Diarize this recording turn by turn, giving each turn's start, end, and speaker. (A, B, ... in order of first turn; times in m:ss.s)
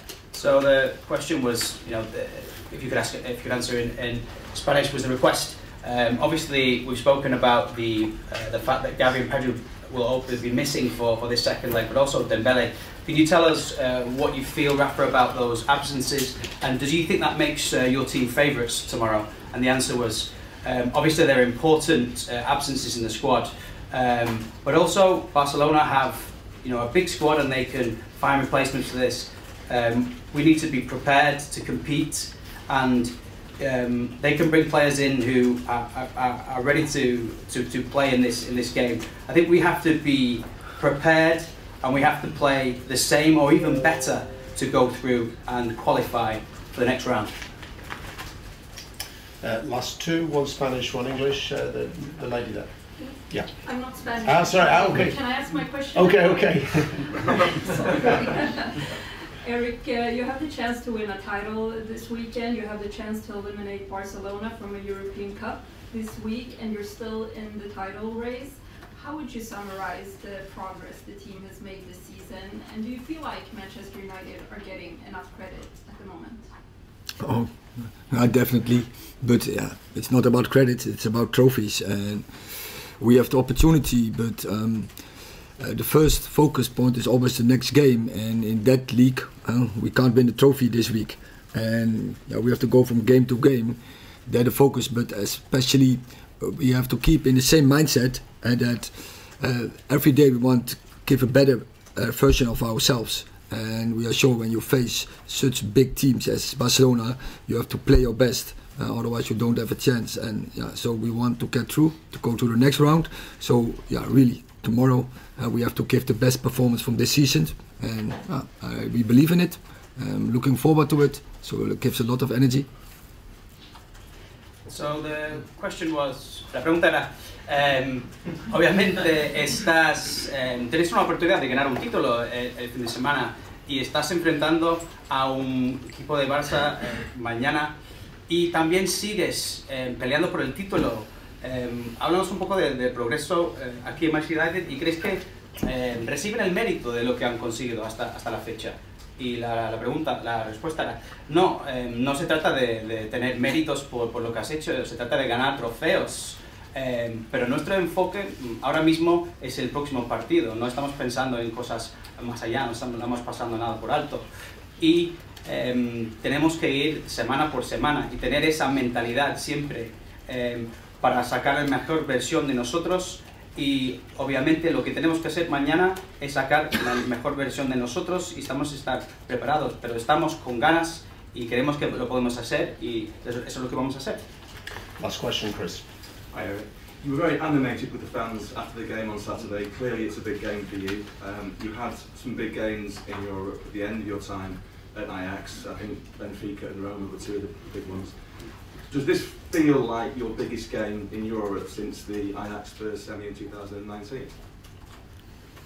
0:00.3-0:47.3 A
0:49.4-0:53.5 B
0:52.9-0:58.7 C
0:54.2-0:55.2 B
0:55.9-0:56.8 B
0:59.4-1:16.5 C
1:17.2-2:02.7 D
2:04.6-2:17.8 A
2:18.3-2:44.3 A
2:44.8-3:04.2 A
3:05.0-3:05.8 B
3:06.3-3:24.4 E